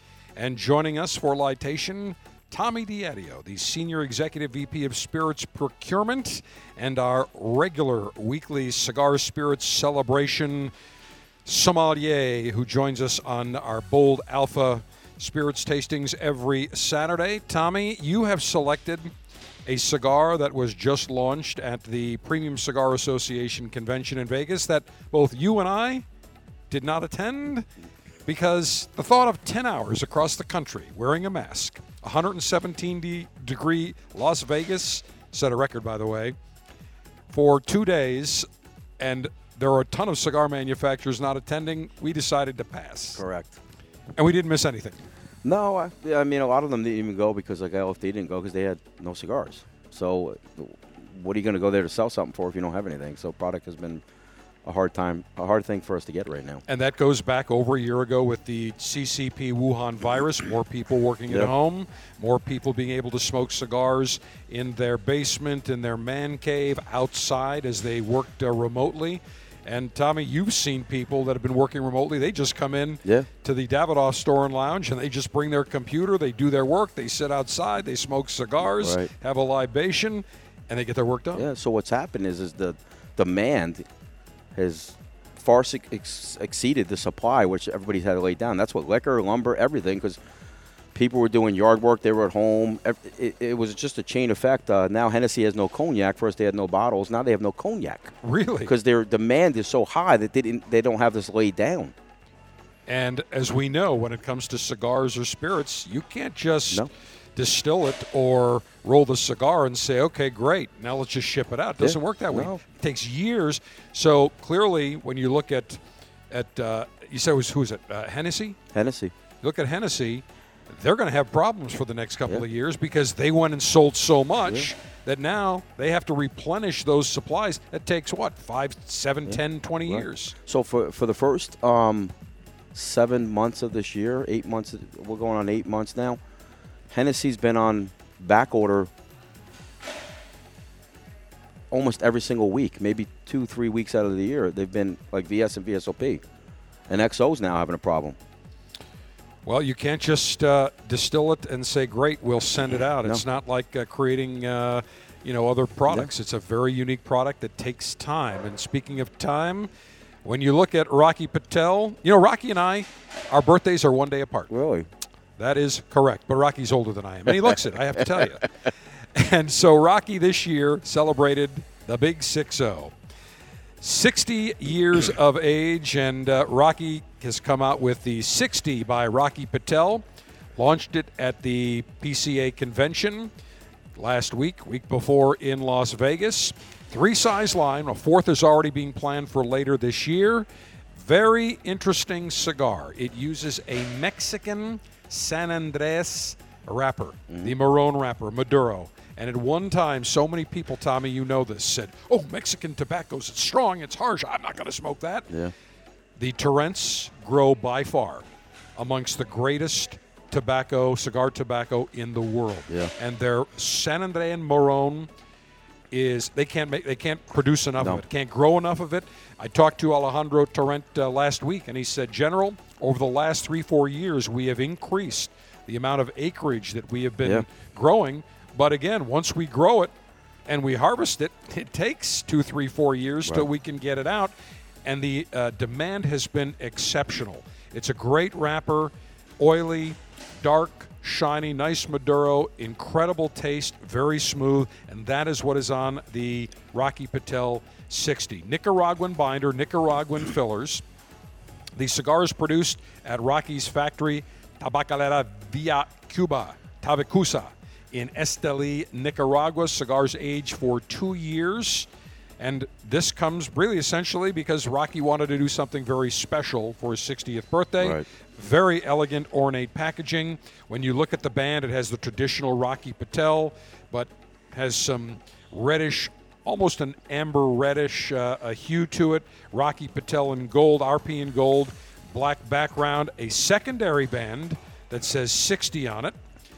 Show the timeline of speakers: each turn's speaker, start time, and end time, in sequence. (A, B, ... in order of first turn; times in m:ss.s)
0:00.4-0:10.7 A
0:11.4-0:19.1 A
0:19.7-0:26.0 A
0:26.7-0:27.7 A
0:28.2-0:36.4 A
0:37.3-0:38.5 A
0:39.0-0:43.2 A
0:43.2-0:43.6 B
0:44.2-0:45.0 A
0:45.4-0:54.0 B
0:54.6-0:56.6 B
0:56.7-1:21.5 A
1:18.6-1:19.1 B
1:21.4-1:23.8 B
1:24.6-1:30.2 B
1:30.9-1:38.1 B
1:38.2-1:38.7 A
1:38.6-1:41.9 B
1:42.9-1:58.6 A
1:51.8-1:52.6 B
1:58.7-1:59.1 B
1:59.4-2:10.4 A
2:09.3-2:12.1 B
2:12.7-2:16.2 B
2:16.9-2:18.9 B
2:21.7-2:26.2 B
2:26.9-2:28.2 B
2:29.4-2:39.7 A
2:40.2-2:44.5 A
2:44.5-2:44.9 B
2:45.4-2:48.5 A
2:49.1-2:52.9 A
2:53.8-3:00.0 A
3:00.6-3:03.3 A
3:04.0-3:10.5 A
3:11.0-3:25.3 A
3:26.2-3:28.3 A
3:28.8-3:35.1 A
3:35.9-3:49.9 A
3:37.8-3:38.0 B
3:50.5-3:54.3 A
3:54.8-4:10.8 A
4:11.8-4:21.9 A
4:22.4-4:46.2 A
4:27.8-4:28.0 B